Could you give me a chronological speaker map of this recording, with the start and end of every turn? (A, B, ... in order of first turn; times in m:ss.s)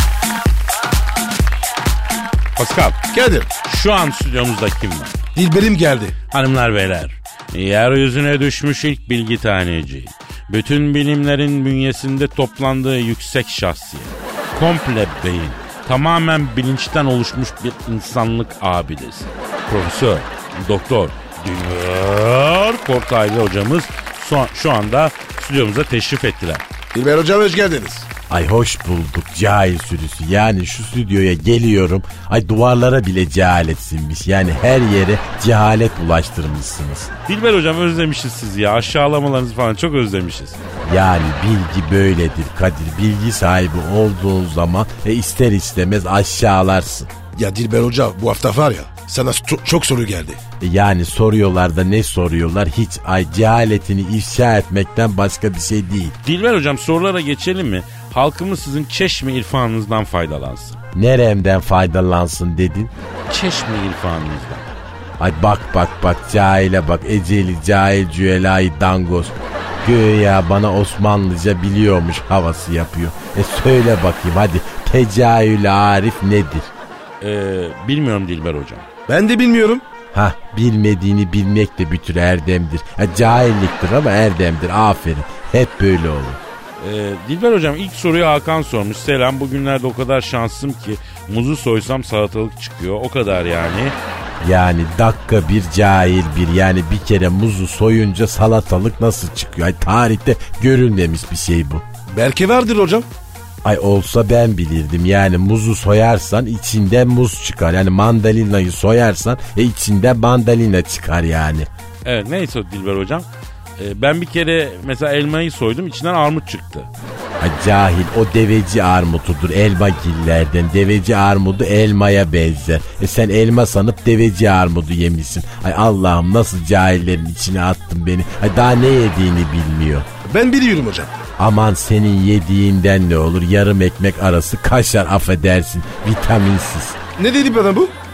0:02.6-0:03.0 A
0:03.1-0:03.5 B
0:03.6-0:05.2 A
0:05.4-0:06.1 B
0:06.3-0:26.6 A
0:26.9-0:28.1 B
0:28.3-0:37.1 C
0:37.3-0:40.6 A
0:40.8-0:47.1 C
0:47.4-0:50.4 B
0:50.6-0:56.2 C
0:56.2-1:00.8 A
1:00.9-1:02.9 C
1:03.3-1:04.8 A
1:05.2-1:16.7 C
1:17.2-1:18.9 A
1:19.1-1:19.8 B
1:20.1-1:26.4 C
1:26.8-1:34.0 A
1:34.4-1:41.8 C
1:42.1-1:43.1 B
1:43.6-1:51.7 C
1:52.0-1:53.3 A
1:53.8-1:56.9 A
1:57.4-2:10.1 C
2:10.2-2:11.1 B
2:11.4-2:17.0 C
2:17.2-2:17.9 B